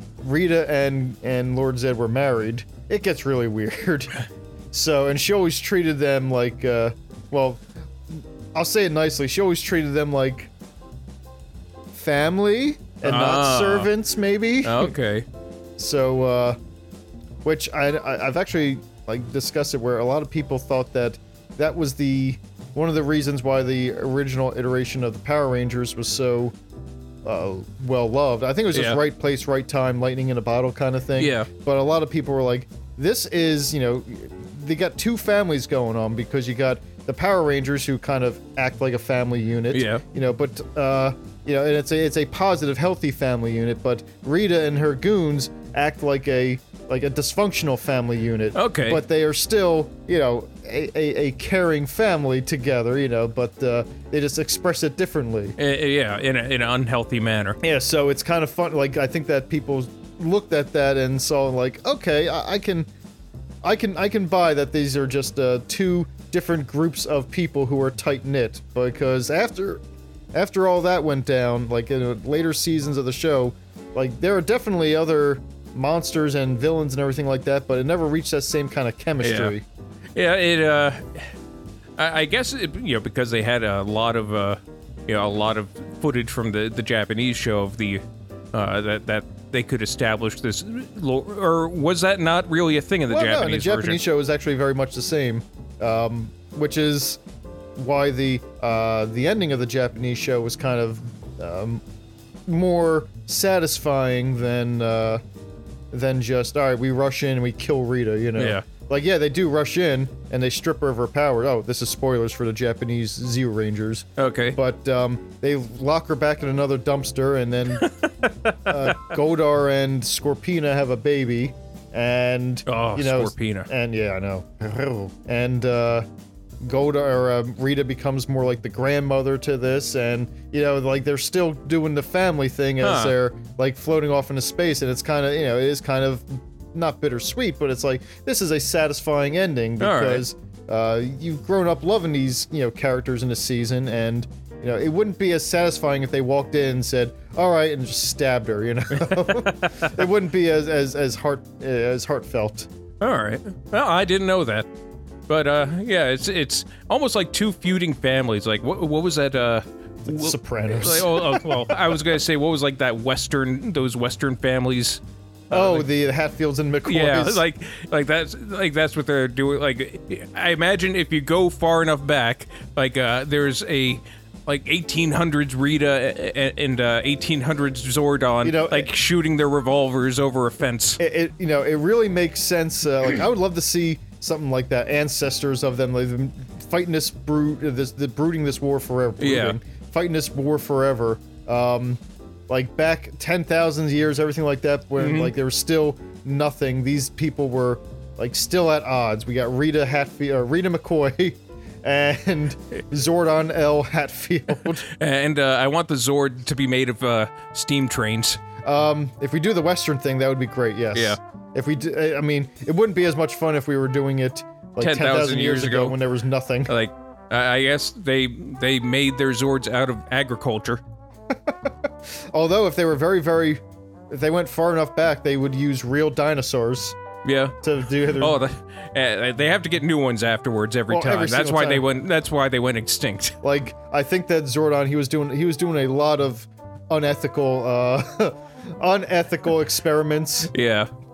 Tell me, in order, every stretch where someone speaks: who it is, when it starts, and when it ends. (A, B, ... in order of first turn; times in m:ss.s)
0:00.2-0:10.5 A
0:11.9-0:14.9 A
0:13.0-0:13.9 B
0:14.6-0:15.3 B
0:15.8-0:16.6 A
0:17.4-0:26.5 A
0:27.2-0:55.6 A
0:28.7-0:29.0 B
0:31.2-0:31.5 B
0:39.7-0:40.0 B
0:48.5-0:49.0 B
0:55.6-0:57.6 B
0:57.6-1:02.9 A
1:03.6-1:09.8 A
1:10.3-1:19.6 A
1:19.2-1:19.5 B
1:20.1-1:21.3 B
1:22.0-1:28.0 B
1:28.5-1:34.0 B
1:33.1-1:37.2 A
1:37.8-1:41.8 A
1:42.5-1:45.2 A
1:45.9-1:57.9 A
1:48.4-1:48.6 B
1:54.2-1:54.6 B
1:57.8-1:58.9 B
1:58.5-2:06.0 A
2:02.6-2:03.7 B
2:06.6-2:32.7 A
2:12.8-2:13.1 B
2:19.8-2:20.2 B
2:29.0-2:29.8 B
2:33.0-2:34.7 B
2:35.3-2:45.9 B
2:40.0-2:41.9 A
2:45.5-2:47.4 A
2:46.8-3:01.0 B
2:58.4-2:58.9 A
3:01.0-3:24.9 A
3:09.2-3:09.6 B
3:15.0-3:15.3 B
3:24.8-3:28.4 B
3:28.6-3:36.7 A
3:34.8-3:36.0 B
3:36.7-3:40.8 B
3:41.5-3:41.7 A
3:42.3-3:47.0 A
3:47.2-3:53.4 B
3:47.6-3:48.4 A
3:50.9-3:51.8 A
3:53.4-4:00.5 A
4:00.5-4:00.9 B